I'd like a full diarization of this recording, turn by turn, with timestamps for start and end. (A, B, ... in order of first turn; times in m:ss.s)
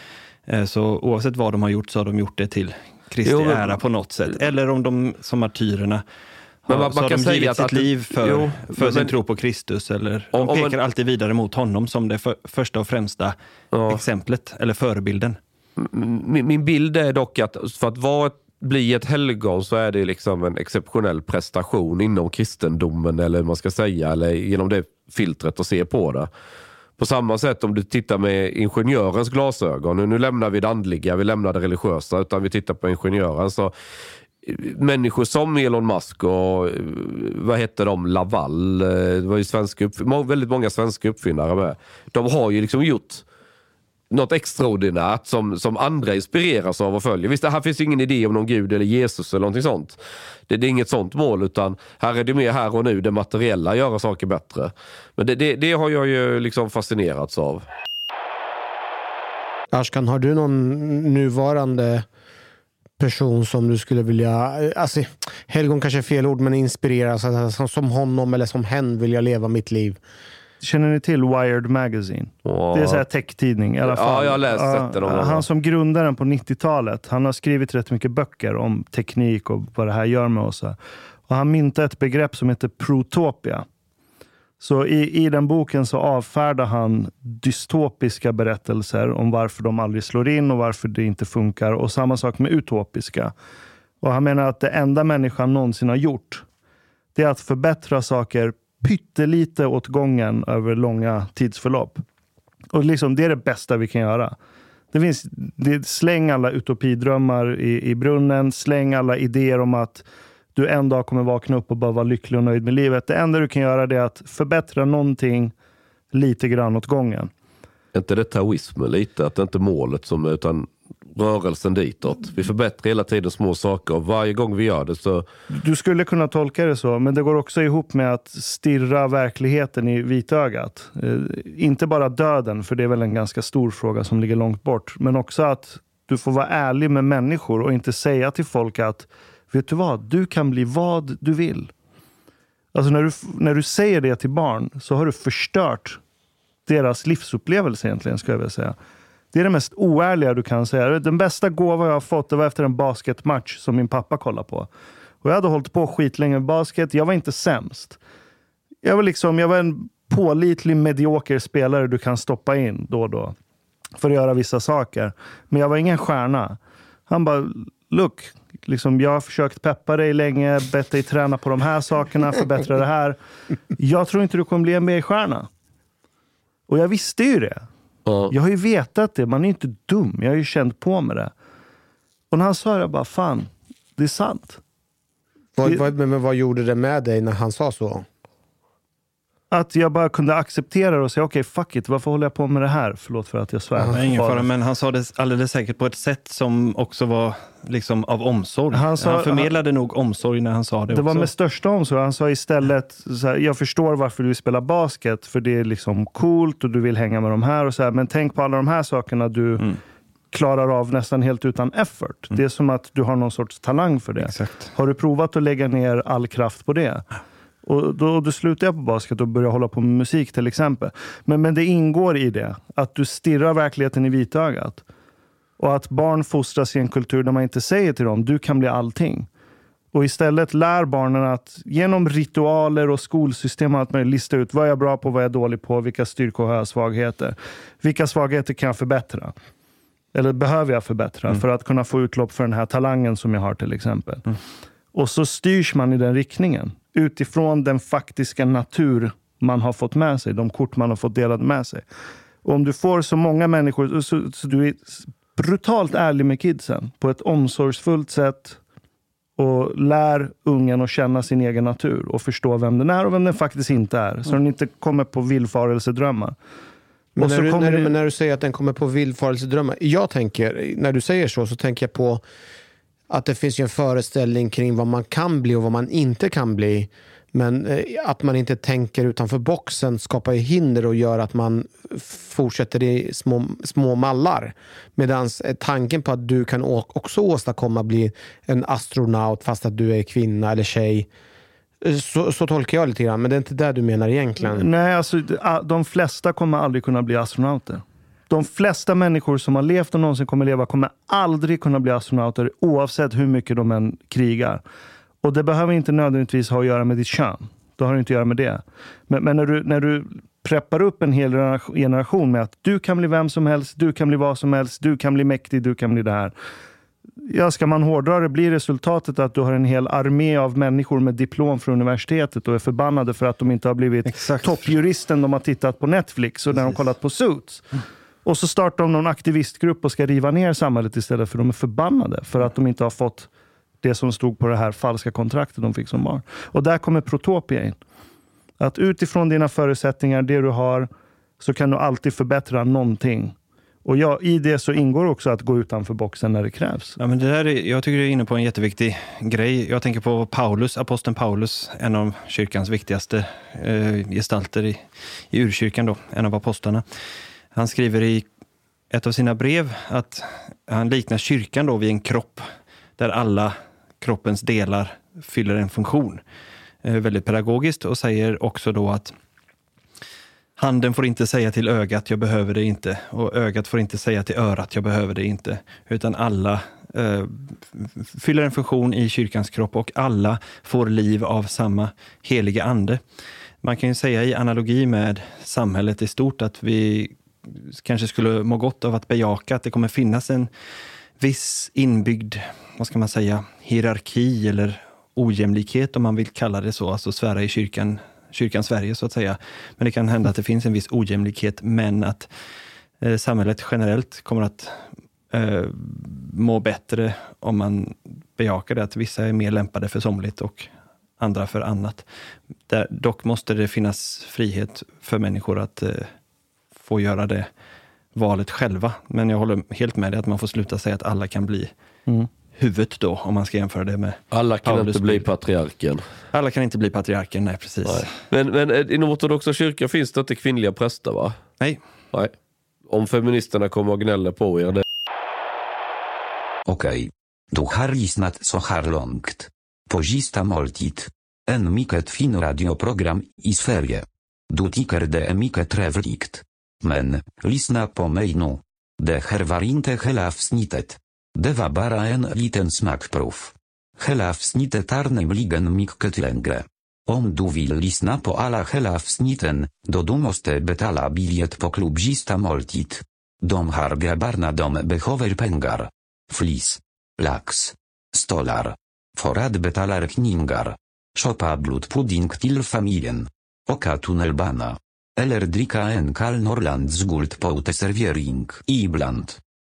0:00.5-0:06.0 A
0:03.2-0:03.8 B
0:06.6-0:13.4 A
0:06.7-0:09.1 B
0:10.3-0:10.8 B
0:13.7-0:14.0 B
0:13.9-0:15.4 A
0:15.8-0:26.3 B
0:27.0-0:33.7 B
0:34.4-0:43.2 B
0:44.1-0:50.0 B
0:50.5-0:57.6 B
0:59.7-1:02.0 C
1:03.0-1:10.0 C
1:10.6-1:23.6 D
1:12.4-1:13.0 B
1:13.8-1:15.4 B
1:24.6-1:33.3 D
1:34.0-1:36.4 D
1:37.1-1:42.0 D
1:42.7-1:44.4 D
1:44.9-1:55.5 D
1:56.1-1:57.3 D
1:57.9-2:05.2 B
2:05.5-2:21.7 D
2:22.7-2:26.0 D
2:26.6-2:28.8 D
2:29.3-2:34.7 D
2:35.2-2:38.0 D
2:38.8-2:43.3 D
2:44.0-2:53.2 D
2:53.8-2:55.5 D
2:56.7-2:57.6 D
2:58.0-2:58.3 B
2:58.3-3:01.3 D
3:02.3-3:04.6 D
3:05.6-3:08.0 C
3:09.5-3:14.5 D
3:13.9-3:21.3 A
3:18.7-3:19.5 D
3:20.9-3:29.6 D
3:30.3-3:37.0 D
3:34.2-3:34.7 A
3:37.6-3:44.8 D
3:45.6-3:49.3 D
3:49.9-3:59.3 D
4:00.1-4:04.2 D
4:04.9-4:11.8 D
4:12.4-4:18.6 D
4:19.4-4:26.4 D
4:27.2-4:27.9 D
4:27.2-4:32.2 C
4:33.1-4:51.1 C
4:51.8-4:54.7 C
4:54.4-5:04.6 D
5:05.2-5:16.3 D
5:17.3-5:27.6 D
5:24.1-5:24.7 A
5:26.5-5:26.8 A
5:28.2-5:33.3 D
5:33.8-5:37.8 D
5:38.6-5:40.9 D
5:41.4-5:47.0 D
5:47.0-5:56.8 A
5:57.5-5:58.2 A
5:58.9-6:02.4 A
6:03.0-6:06.2 A
6:06.8-6:09.1 A
6:10.6-6:23.0 A
6:23.6-6:30.5 A
6:31.2-6:42.3 A
6:43.0-6:52.0 A
6:52.7-6:56.1 A
6:56.8-6:57.5 A
6:58.1-7:01.7 A
7:02.5-7:05.3 A
7:04.3-7:06.0 B
7:06.3-7:08.1 A
7:07.8-7:11.3 B
7:12.9-7:14.8 B
7:16.6-7:59.4 E